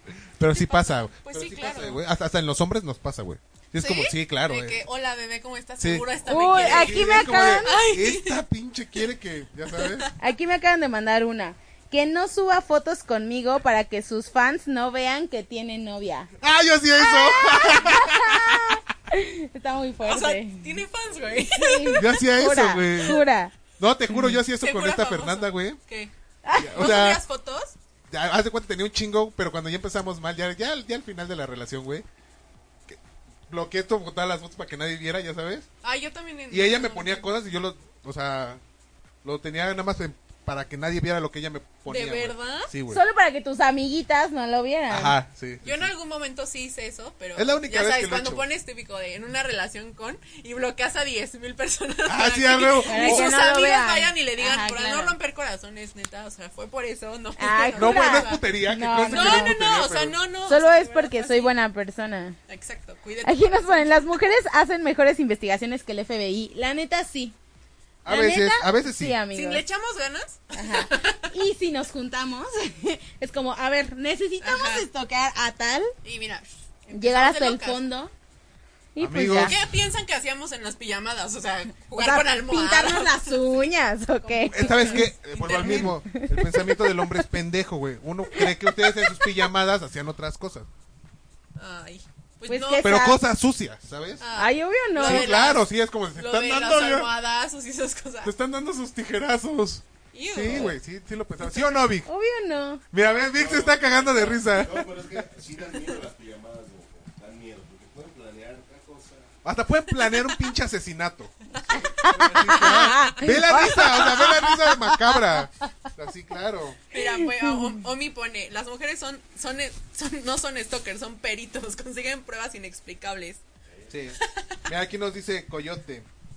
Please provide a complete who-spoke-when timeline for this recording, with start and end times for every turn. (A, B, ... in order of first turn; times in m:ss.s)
0:00.4-0:04.8 A
0:00.5-0:02.0 B
0:03.8-0:08.4 B
0:05.8-0:10.1 A
0:06.2-0:07.8 C
0:09.7-0:10.1 B
0:10.2-0:16.3 C
0:16.4-0:18.8 A
0:17.0-0:20.8 C
0:20.0-0:22.1 B
0:21.3-0:23.5 C
0:21.9-0:23.2 A
0:23.8-0:25.8 A
0:24.2-0:26.1 B
0:26.4-0:26.9 C
0:26.5-0:27.2 A
0:26.8-0:27.7 B
0:28.1-0:32.0 A
0:32.9-0:35.7 A
0:35.8-0:37.3 B
0:36.5-0:38.6 A
0:39.2-0:43.0 A
0:41.8-0:42.7 B
0:42.9-0:45.1 C
0:44.9-0:45.9 A
0:45.6-0:58.4 B
0:47.4-0:48.4 A
0:52.0-0:53.3 A
0:52.9-0:55.1 C
0:57.4-0:59.6 C
0:57.8-1:00.2 A
0:59.0-1:01.5 B
1:00.4-1:02.4 C
1:02.5-1:04.0 B
1:03.2-1:07.4 C
1:08.0-1:09.2 A
1:08.1-1:09.6 C
1:09.3-1:11.3 B
1:10.5-1:15.9 C
1:14.4-1:14.9 B
1:16.0-1:17.8 B
1:16.9-1:18.1 C
1:18.9-1:19.6 C
1:19.0-1:19.6 A
1:19.4-1:23.4 B
1:22.0-1:27.1 C
1:24.2-1:25.9 B
1:24.5-1:30.7 A
1:28.4-1:29.3 B
1:31.6-1:33.0 B
1:32.5-1:33.2 C
1:32.8-1:34.2 A
1:34.2-1:38.3 B
1:34.4-1:35.4 C
1:35.0-1:37.1 A
1:38.2-1:42.1 A
1:40.1-1:40.8 B
1:42.0-1:42.8 C
1:42.9-1:45.2 A
1:43.3-1:49.3 D
1:49.4-1:51.3 A
1:51.7-1:52.4 D
1:52.0-1:55.2 C
1:52.0-1:54.4 B
1:52.1-1:56.8 A
1:56.9-2:03.4 B
1:56.9-1:57.7 C
2:03.9-2:06.1 A